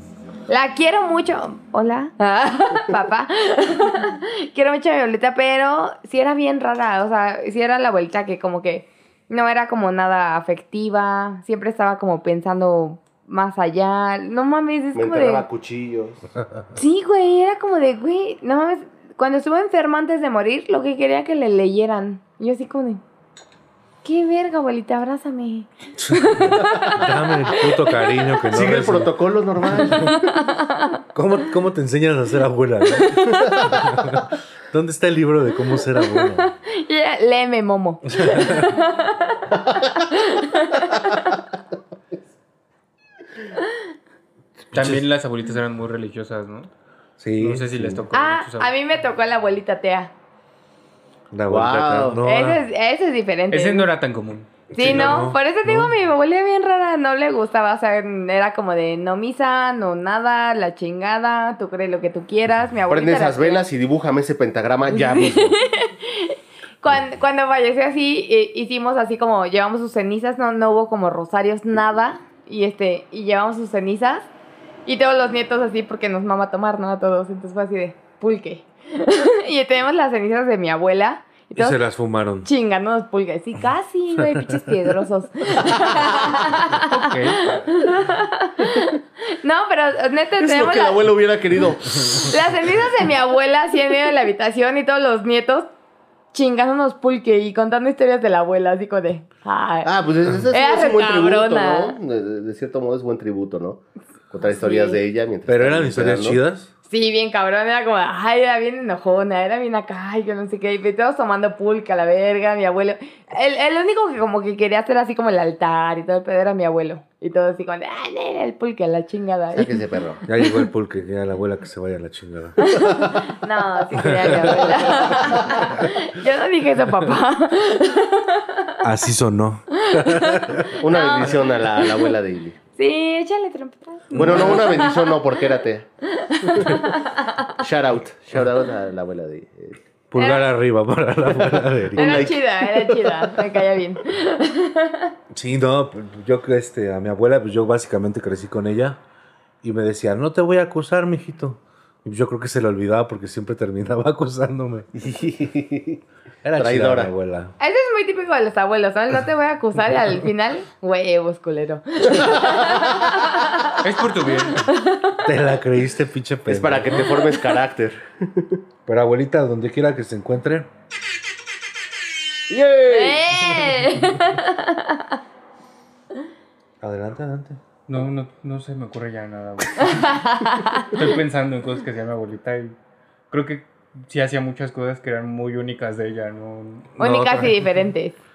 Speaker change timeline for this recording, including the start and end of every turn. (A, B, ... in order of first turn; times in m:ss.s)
0:00.5-0:15.5 A
0:15.0-0:16.2 B
0:16.8-0:23.0 A
0:24.0-0:28.0 A
0:26.0-0:29.2 C
0:28.5-0:30.4 B
0:29.7-0:30.1 C
0:29.9-0:31.0 A
0:31.1-0:36.5 C
0:36.4-0:41.4 A
0:38.1-0:38.7 C
0:44.7-0:45.0 C
0:44.7-0:46.7 D
0:47.2-0:48.0 C
0:47.4-0:48.7 D
0:48.1-0:50.1 A
0:51.3-0:52.6 C
0:51.5-0:52.2 B
0:52.2-0:53.9 A
0:53.5-0:55.2 D
0:54.7-1:03.7 A
0:54.7-0:55.9 C
1:02.9-1:05.6 B
1:04.9-1:14.3 A
1:14.9-1:21.8 A
1:21.5-1:22.5 C
1:22.4-1:31.0 A
1:24.2-1:24.6 C
1:26.9-1:27.6 D
1:30.4-1:32.4 B
1:32.2-1:35.7 A
1:36.3-1:39.9 A
1:39.8-1:46.4 B
1:40.5-1:42.0 A
1:44.4-1:45.0 A
1:45.5-1:46.7 C
1:46.9-1:59.8 A
1:59.5-2:00.2 B
2:00.3-2:03.2 C
2:00.4-2:00.6 A
2:02.6-2:08.8 A
2:04.0-2:05.3 C
2:08.8-2:10.7 C
2:09.8-2:12.1 A
2:10.8-2:12.6 B
2:12.8-2:15.2 A
2:14.1-2:14.8 C
2:14.1-2:15.9 B
2:16.1-2:17.5 A
2:17.6-2:19.8 B
2:20.1-2:22.4 C
2:20.2-2:20.5 A
2:21.5-2:22.4 B
2:22.0-2:25.2 A
2:25.3-2:29.0 C
2:29.6-2:34.9 C
2:35.0-2:36.0 B
2:36.4-2:37.5 C
2:36.6-2:37.1 B
2:37.6-2:43.8 A
2:43.8-2:44.7 D
2:44.6-2:45.2 A
2:45.2-2:47.1 C
2:46.5-2:48.6 B
2:48.9-2:50.7 C
2:52.5-2:53.9 B
2:52.9-2:55.2 A
2:56.8-2:57.6 C
2:57.9-3:00.1 D
2:59.8-3:01.0 A
3:00.9-3:02.8 D
3:03.3-3:07.5 D
3:07.0-3:07.5 C
3:07.0-3:08.2 A